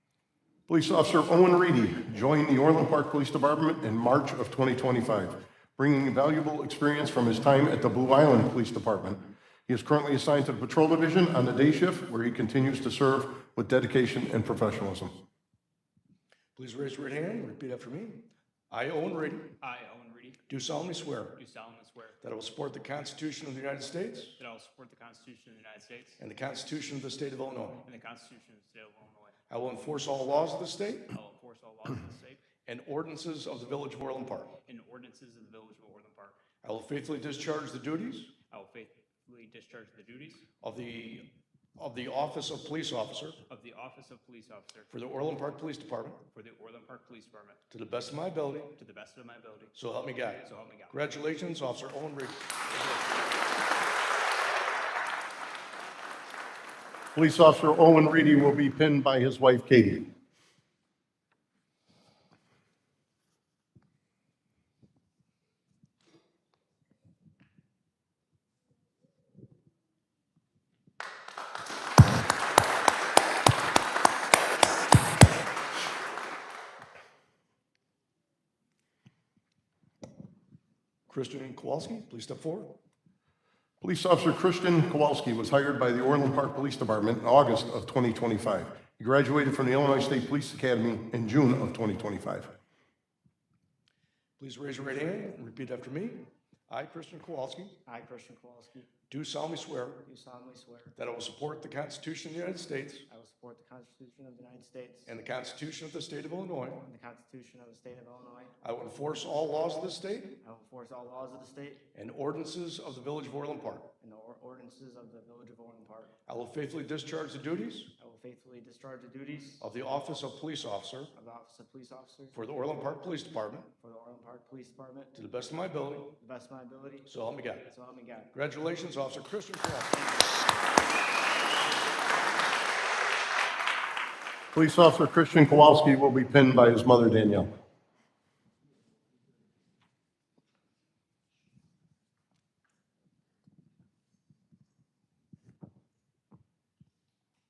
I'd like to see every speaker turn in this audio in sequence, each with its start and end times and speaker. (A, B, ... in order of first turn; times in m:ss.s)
0:00.7-0:15.1 A
0:16.6-0:19.5 B
0:19.6-0:20.4 C
0:20.5-0:21.4 B
0:21.3-0:22.2 C
0:22.2-0:24.4 B
0:24.4-0:26.2 C
0:26.2-0:27.8 B
0:27.8-0:29.4 C
0:29.5-0:31.2 B
0:31.1-0:32.5 C
0:32.6-0:34.5 B
0:34.6-0:36.4 C
0:36.6-0:38.3 B
0:38.5-0:40.5 C
0:40.6-0:43.4 B
0:43.5-0:44.9 C
0:44.9-0:46.2 B
0:46.3-0:47.6 C
0:47.7-0:48.7 B
0:48.7-0:49.8 C
0:49.7-0:53.0 B
0:50.4-0:51.0 C
0:57.1-1:00.0 A
1:21.1-1:22.8 B
1:23.8-1:32.5 A
1:34.4-1:37.8 B
1:37.8-1:38.9 D
1:39.1-1:40.0 B
1:40.0-1:40.9 D
1:41.0-1:43.0 B
1:43.1-1:45.1 D
1:45.1-1:46.8 B
1:46.8-1:48.5 D
1:48.6-1:50.3 B
1:50.4-1:51.9 D
1:51.9-1:53.9 B
1:54.0-1:56.1 D
1:56.3-1:57.9 B
1:58.0-1:59.6 D
1:59.6-2:01.1 B
2:01.1-2:02.4 D
2:02.3-2:03.7 B
2:03.8-2:05.1 D
2:05.1-2:06.1 B
2:06.2-2:08.3 D
2:07.0-2:07.6 B
2:08.3-2:10.3 B
2:14.5-2:17.5 A